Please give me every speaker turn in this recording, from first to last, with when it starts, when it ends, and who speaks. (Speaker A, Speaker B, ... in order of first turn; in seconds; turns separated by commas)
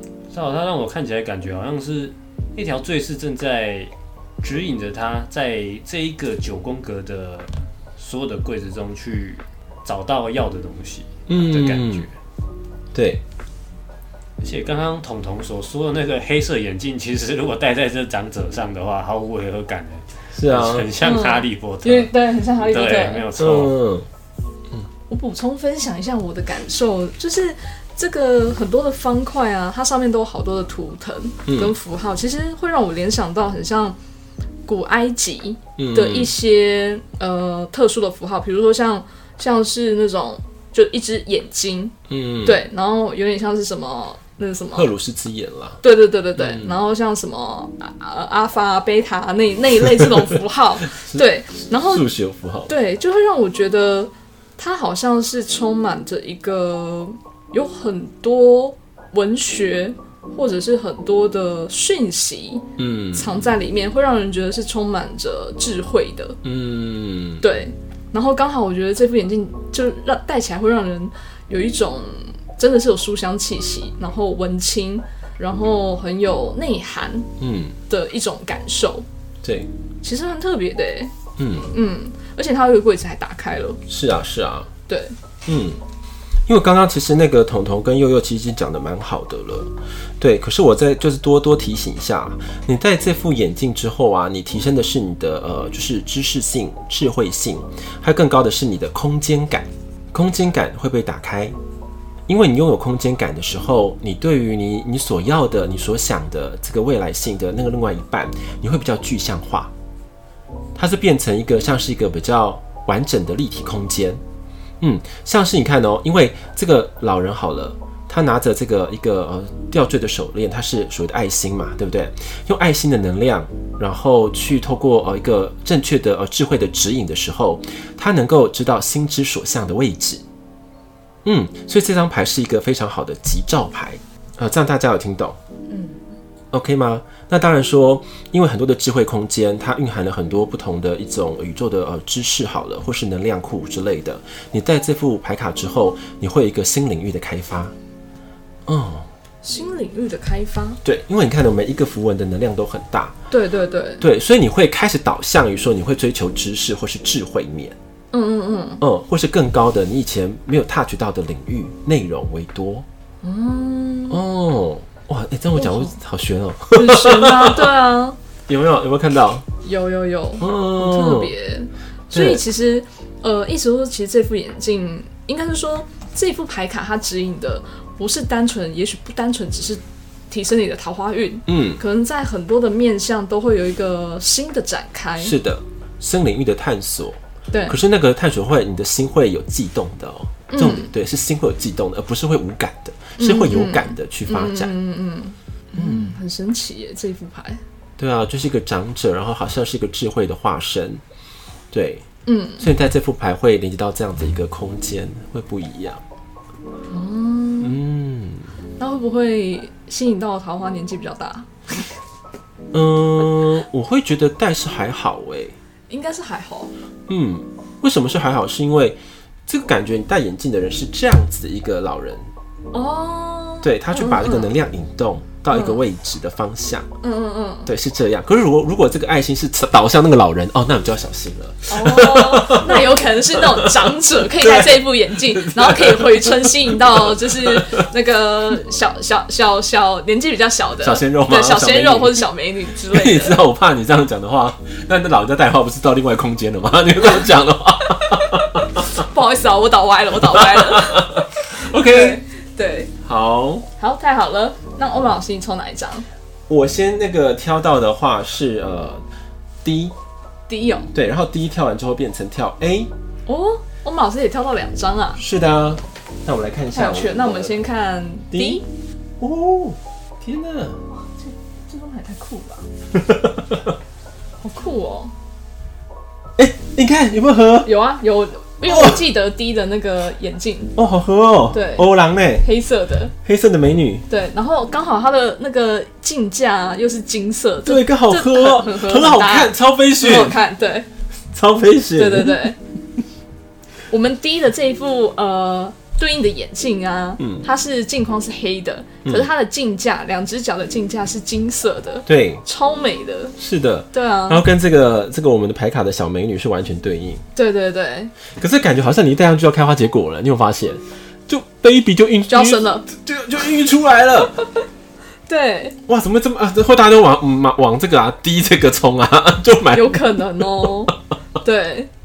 Speaker A: 0.3-12.1, Speaker B: 11.3-12.1, Speaker B: 12.9-13.2, Speaker A: 14.4-23.8, Speaker B: 20.4-20.9, Speaker C: 21.0-23.3, Speaker B: 23.4-24.1, Speaker C: 25.1-34.0, Speaker B: 31.5-31.8, Speaker C: 34.7-44.9, Speaker B: 35.8-36.3, Speaker B: 42.1-42.6, Speaker B: 44.7-45.8, Speaker C: 45.8-52.1, Speaker B: 46.4-46.8, Speaker B: 50.9-51.2, Speaker B: 51.8-52.7, Speaker C: 52.7-66.4, Speaker B: 62.8-63.5, Speaker B: 66.4-67.5, Speaker C: 67.4-77.3, Speaker B: 77.4-77.8, Speaker C: 77.9-79.1, Speaker B: 79.4-79.7, Speaker C: 80.0-81.1, Speaker B: 81.4-81.7, Speaker C: 81.7-83.8, Speaker B: 83.9-84.7, Speaker C: 84.9-85.2, Speaker B: 85.5-85.8, Speaker B: 86.5-101.5, Speaker B: 102.3-109.7, Speaker B: 110.8-114.2, Speaker B: 114.8-130.2, Speaker B: 131.2-135.4, Speaker C: 135.7-136.0, Speaker B: 136.5-147.7, Speaker B: 148.7-149.1, Speaker C: 149.4-150.8, Speaker B: 150.8-153.2, Speaker C: 153.3-154.0, Speaker B: 154.0-157.8, Speaker C: 158.1-158.8, Speaker B: 158.8-162.9, Speaker C: 163.2-164.2, Speaker B: 164.1-167.7, Speaker C: 165.6-165.9, Speaker C: 166.7-168.2, Speaker B: 168.5-169.5, Speaker C: 169.6-185.4, Speaker B: 170.4-171.3, Speaker B: 172.1-172.4, Speaker B: 181.5-181.8, Speaker B: 185.2-194.7, Speaker C: 187.5-187.8, Speaker C: 190.5-190.9, Speaker C: 193.2-197.6, Speaker B: 195.8-196.2, Speaker B: 198.0-201.0, Speaker B: 201.7-202.1, Speaker C: 202.3-202.7, Speaker B: 202.6-206.0, Speaker C: 206.9-207.8, Speaker B: 207.6-208.5, Speaker C: 208.8-211.8, Speaker B: 212.7-215.6, Speaker C: 215.9-216.7, Speaker B: 217.1-222.3, Speaker C: 222.7-224.5, Speaker B: 223.6-226.9, Speaker C: 225.5-225.8, Speaker C: 227.0-227.7, Speaker B: 227.7-237.9, Speaker C: 231.7-243.4, Speaker B: 240.8-242.2, Speaker B: 242.9-248.9, Speaker C: 248.1-252.9, Speaker B: 250.2-252.2, Speaker B: 253.0-253.7, Speaker C: 253.8-256.1, Speaker B: 256.5-259.0, Speaker B: 259.6-259.9, Speaker C: 260.5-260.9, Speaker B: 260.9-262.9, Speaker C: 263.3-265.2, Speaker B: 265.2-267.6, Speaker C: 266.7-268.6, Speaker B: 268.3-268.6, Speaker B: 269.2-270.8, Speaker C: 270.9-272.7, Speaker B: 272.9-273.7, Speaker C: 274.4-275.1, Speaker B: 276.4-277.7, Speaker C: 277.6-280.8, Speaker B: 278.7-279.0, Speaker B: 280.8-282.5, Speaker C: 281.5-281.9, Speaker C: 282.4-283.1, Speaker B: 283.2-284.1, Speaker C: 284.1-290.9, Speaker B: 287.6-290.4, Speaker B: 291.3-292.4, Speaker C: 292.0-292.6, Speaker C: 293.9-303.4, Speaker B: 297.2-297.4, Speaker B: 302.1-302.4, Speaker B: 303.4-307.2, Speaker C: 303.9-304.4, Speaker C: 307.4-308.1, Speaker B: 308.4-314.4, Speaker C: 312.3-312.9, Speaker C: 315.3-315.8, Speaker B: 315.9-320.9, Speaker C: 319.7-321.9